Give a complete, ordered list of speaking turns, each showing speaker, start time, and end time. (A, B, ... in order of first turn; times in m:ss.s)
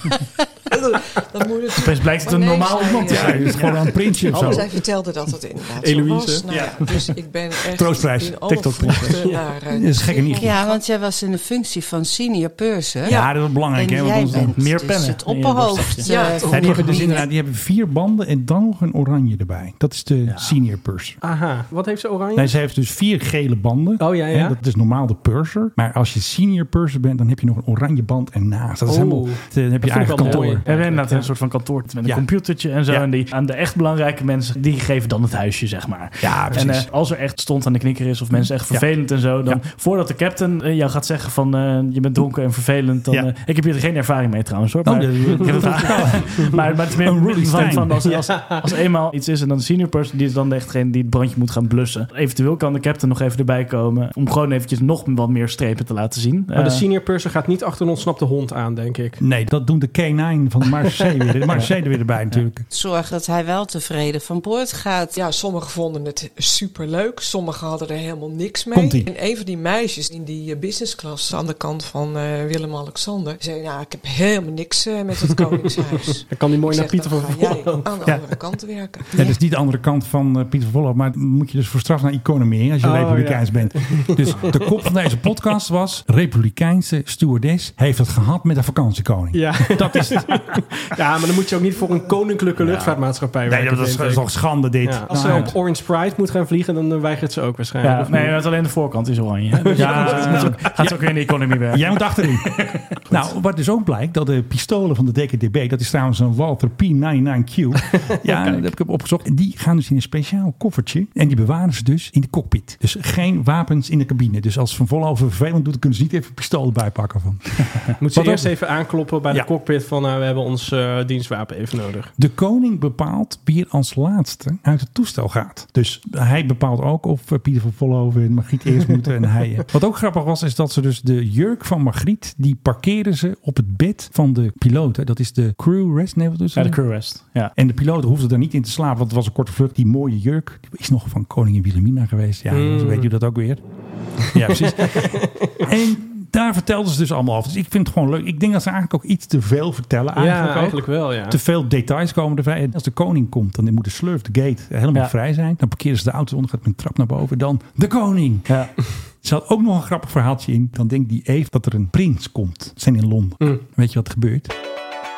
0:00.7-0:03.6 A
0:01.8-0:04.6 B
0:02.9-0:04.7 C
0:04.2-0:10.8 A
0:05.8-0:06.4 D
0:06.5-0:06.9 C
0:07.7-0:10.6 C
0:10.4-0:17.2 E
0:13.0-0:13.6 A
0:13.0-0:14.6 C
0:14.3-0:16.8 B
0:16.0-0:17.3 A
0:16.3-0:21.2 C
0:21.2-0:22.5 D
0:22.3-0:30.6 C
0:24.0-0:24.5 D
0:28.8-0:31.3 D
0:30.2-0:56.8 B
0:32.0-0:33.1 C
0:36.2-0:36.9 C
0:38.3-0:39.6 C
0:44.8-0:48.2 C
0:48.0-0:48.6 D
0:56.5-0:59.2 D
0:59.2-1:02.6 C
1:02.7-1:05.2 E
1:05.1-1:19.3 A
1:08.7-1:09.1 C
1:16.2-1:17.9 D
1:19.1-1:30.6 C
1:22.8-1:24.7 D
1:29.3-1:38.4 D
1:32.6-1:33.0 B
1:33.4-1:35.6 C
1:35.1-1:35.5 B
1:37.8-1:42.5 B
1:39.6-1:40.8 D
1:39.7-1:40.9 C
1:41.7-1:58.5 C
1:58.0-2:02.1 D
2:02.2-2:16.8 C
2:16.6-2:17.5 B
2:17.5-2:23.6 C
2:22.5-2:23.1 D
2:24.2-2:38.7 C
2:24.6-2:25.6 D
2:30.2-2:31.4 D
2:38.5-2:38.7 B
2:39.2-2:44.5 C